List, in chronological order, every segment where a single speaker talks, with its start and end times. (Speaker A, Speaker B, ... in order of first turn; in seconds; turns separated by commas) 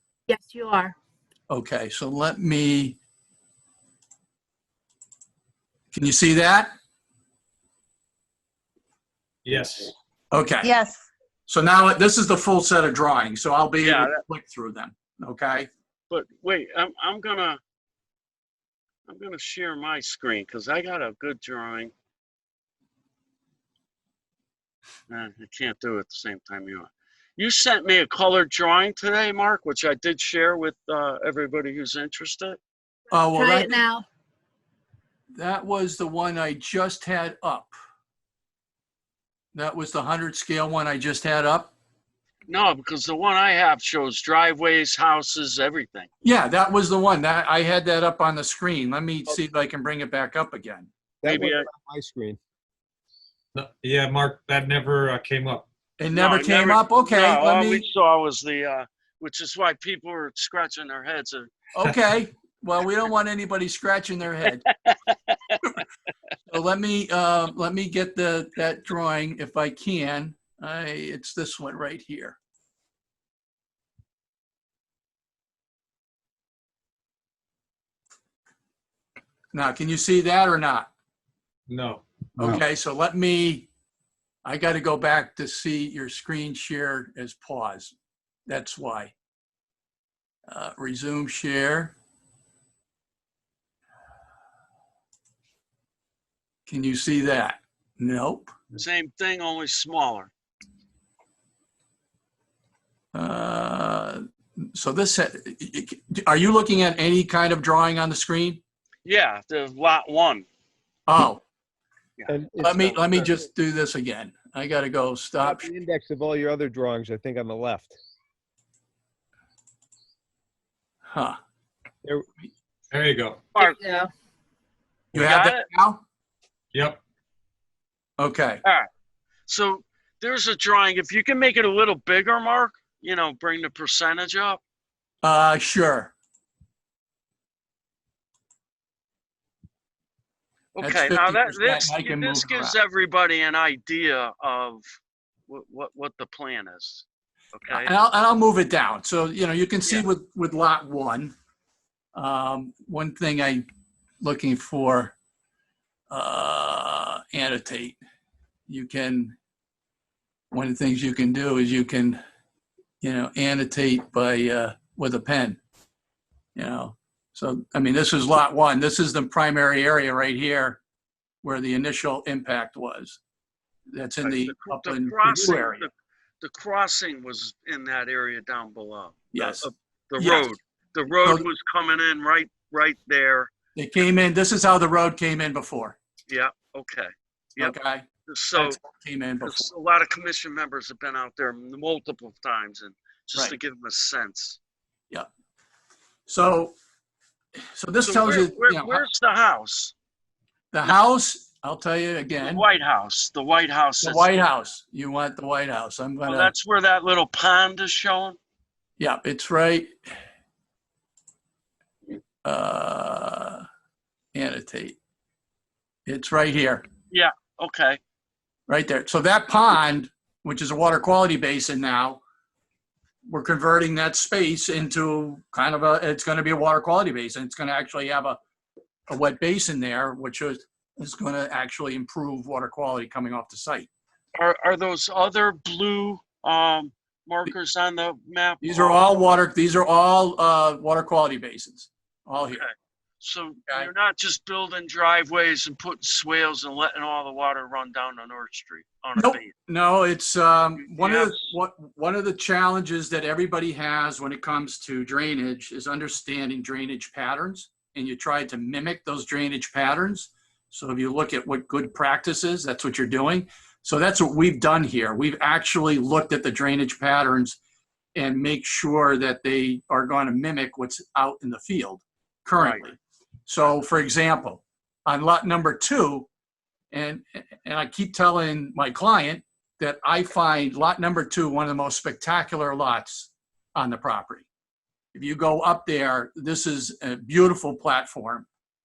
Speaker A: 0.3-0.9, Speaker B: 1.5-3.0, Speaker B: 5.9-6.7, Speaker C: 9.4-9.9, Speaker B: 10.3-10.7, Speaker A: 10.6-11.0, Speaker B: 11.5-15.7, Speaker D: 13.8-14.2, Speaker D: 16.1-17.6, Speaker D: 19.1-21.9, Speaker D: 25.1-32.6, Speaker B: 33.1-33.8, Speaker A: 33.3-34.1, Speaker B: 35.4-37.8, Speaker B: 39.5-41.7, Speaker D: 42.5-46.1, Speaker B: 46.2-50.9, Speaker E: 51.2-52.4, Speaker D: 51.2-51.7, Speaker C: 53.5-55.7, Speaker B: 56.0-57.9, Speaker D: 56.1-61.5, Speaker B: 61.8-64.6, Speaker D: 64.5-65.8, Speaker B: 66.5-72.4, Speaker B: 79.5-80.9, Speaker C: 81.7-82.0, Speaker B: 82.4-83.7, Speaker B: 84.5-88.0, Speaker B: 88.5-89.1, Speaker B: 90.5-92.0, Speaker B: 96.7-98.5, Speaker D: 98.8-100.3, Speaker B: 103.1-104.2, Speaker B: 104.8-108.6, Speaker D: 109.0-110.5, Speaker B: 111.1-111.4, Speaker D: 112.2-113.3, Speaker E: 112.3-113.0, Speaker B: 112.6-115.7, Speaker E: 115.4-118.0, Speaker B: 121.1-121.4, Speaker C: 122.9-123.4, Speaker D: 123.5-123.8, Speaker A: 123.6-124.1, Speaker B: 125.1-126.0, Speaker D: 125.1-125.7, Speaker C: 126.7-127.0, Speaker B: 128.2-128.6, Speaker D: 129.5-134.6, Speaker B: 135.2-136.1, Speaker D: 140.8-144.8, Speaker B: 140.8-142.8, Speaker D: 145.5-147.9, Speaker B: 147.7-151.3, Speaker B: 152.2-153.7, Speaker B: 154.2-155.2, Speaker B: 156.1-158.0, Speaker B: 158.7-159.4, Speaker B: 160.5-162.2, Speaker B: 163.0-165.6, Speaker B: 166.6-170.8, Speaker B: 171.4-173.2, Speaker B: 173.9-175.9, Speaker D: 174.2-183.5, Speaker B: 179.3-180.5, Speaker B: 181.1-181.5, Speaker B: 183.8-186.0, Speaker D: 186.3-188.8, Speaker B: 187.6-189.7, Speaker D: 189.4-194.6, Speaker B: 196.3-196.8, Speaker B: 197.7-199.0, Speaker D: 198.1-199.9, Speaker B: 200.7-202.7, Speaker D: 202.4-204.6, Speaker B: 204.0-206.5, Speaker D: 206.2-208.4, Speaker B: 209.0-209.9, Speaker B: 212.4-213.7, Speaker B: 214.3-215.0, Speaker B: 216.1-216.8, Speaker D: 217.1-218.0, Speaker B: 218.7-222.2, Speaker B: 223.3-228.4, Speaker B: 229.1-233.9, Speaker D: 234.4-239.0, Speaker B: 238.6-242.6, Speaker D: 242.4-242.7, Speaker D: 243.2-249.5, Speaker B: 249.2-267.6, Speaker D: 250.8-251.5, Speaker B: 268.2-273.0, Speaker D: 272.6-272.9, Speaker B: 273.5-276.3, Speaker B: 276.9-284.5, Speaker B: 285.1-288.5